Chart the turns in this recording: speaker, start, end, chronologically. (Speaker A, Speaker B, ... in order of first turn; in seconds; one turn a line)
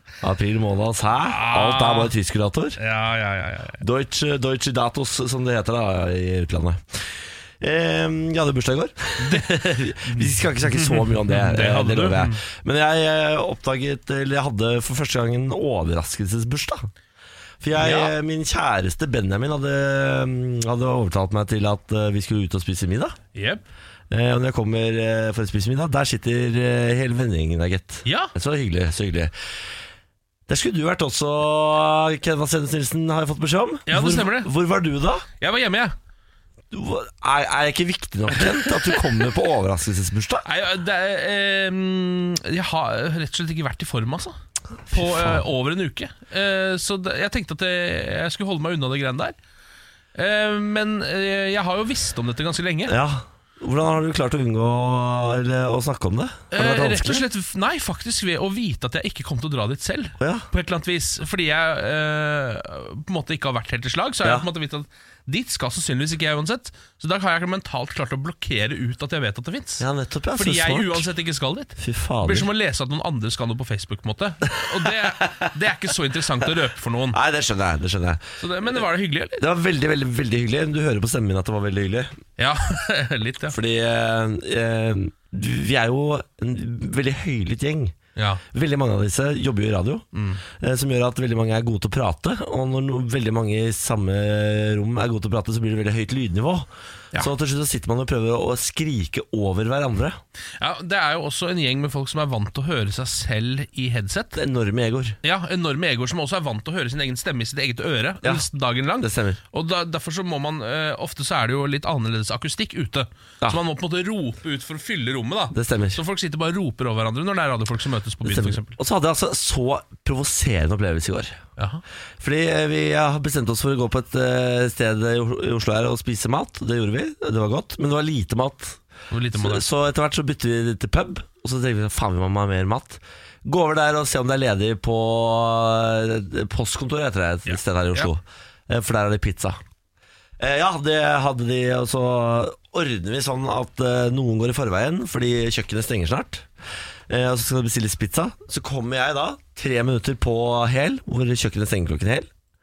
Speaker A: 0.2-2.8
Speaker B: 1.2-2.1
Speaker B: 2.8-3.8
Speaker A: 3.8-16.9
Speaker B: 9.2-9.5
Speaker B: 10.0-12.4
Speaker A: 17.6-23.1
Speaker B: 17.7-18.1
Speaker B: 23.3-23.6
Speaker A: 24.1-29.3
Speaker B: 28.0-28.3
Speaker A: 30.5-35.2
Speaker B: 33.9-34.5
Speaker B: 35.4-35.9
Speaker A: 36.7-40.5
Speaker B: 38.4-39.2
Speaker B: 40.4-44.4
Speaker A: 44.9-45.5
Speaker B: 44.9-49.4
Speaker B: 50.1-52.9
Speaker A: 52.9-57.2
Speaker B: 56.5-77.2
Speaker A: 60.2-60.5
Speaker A: 69.8-71.1
Speaker A: 71.8-72.5
Speaker A: 75.2-75.5
Speaker A: 77.1-78.8
Speaker B: 78.4-79.4
Speaker A: 79.3-82.1
Speaker B: 82.4-83.5
Speaker A: 83.5-87.9
Speaker B: 88.2-88.4
Speaker A: 88.5-100.2
Speaker B: 90.1-90.4
Speaker B: 100.6-104.4
Speaker A: 104.3-105.2
Speaker B: 105.2-118.8
Speaker A: 109.0-109.4
Speaker A: 115.5-116.0
Speaker A: 118.2-121.4
Speaker B: 121.6-121.8
Speaker A: 122.2-128.8
Speaker B: 129.1-129.7
Speaker A: 129.3-139.6
Speaker B: 137.5-138.1
Speaker A: 140.4-146.5
Speaker A: 147.1-152.3